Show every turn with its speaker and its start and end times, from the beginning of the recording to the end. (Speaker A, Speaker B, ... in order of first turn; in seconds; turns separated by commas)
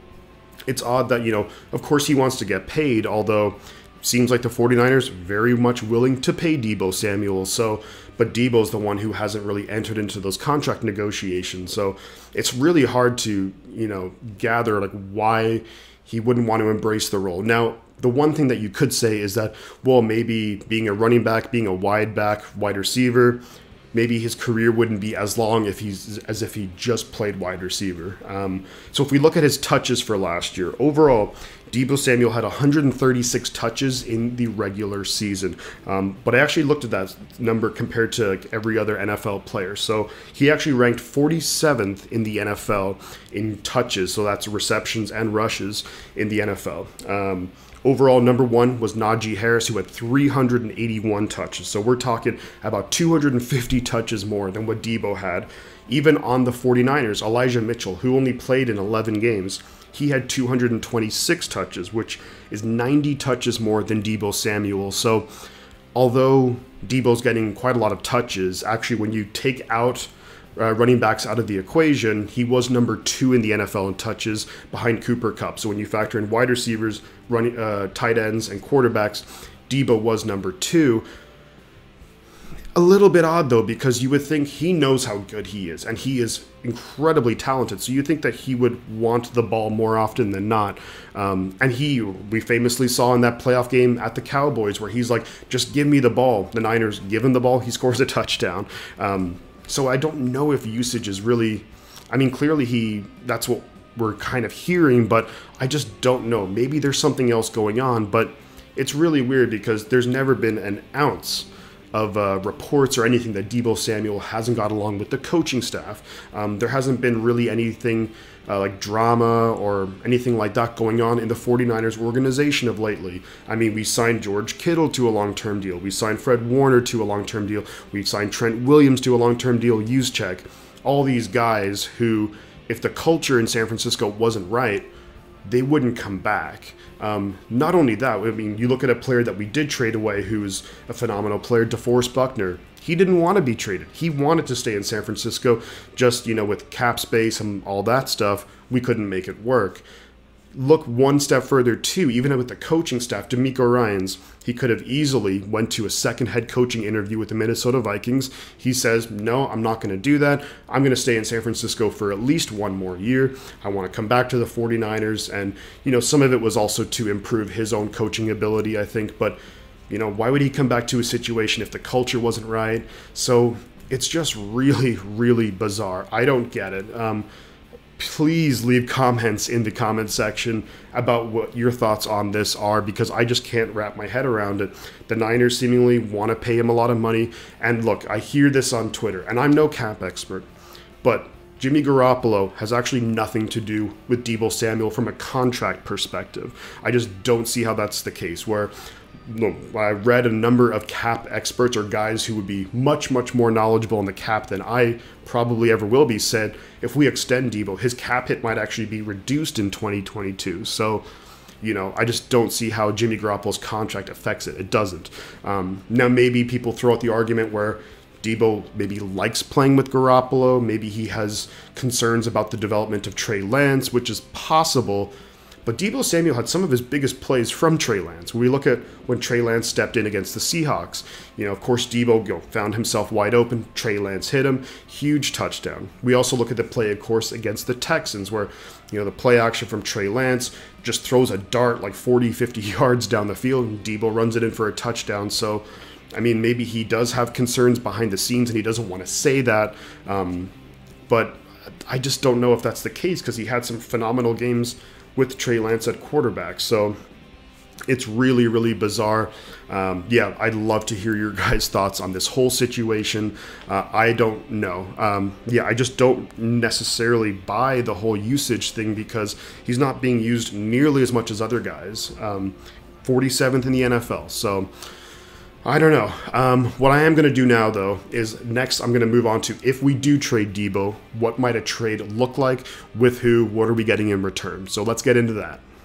Speaker A: 0.7-23.4, Speaker A: 23.9-65.3, Speaker A: 65.9-81.0, Speaker A: 82.8-134.9, Speaker A: 135.4-149.8, Speaker A: 150.5-169.4, Speaker A: 169.9-177.3, Speaker A: 178.0-190.5, Speaker A: 191.0-198.7, Speaker A: 199.2-211.0, Speaker A: 211.6-225.1, Speaker A: 225.7-250.5, Speaker A: 251.1-257.0, Speaker A: 257.9-274.7, Speaker A: 275.6-285.6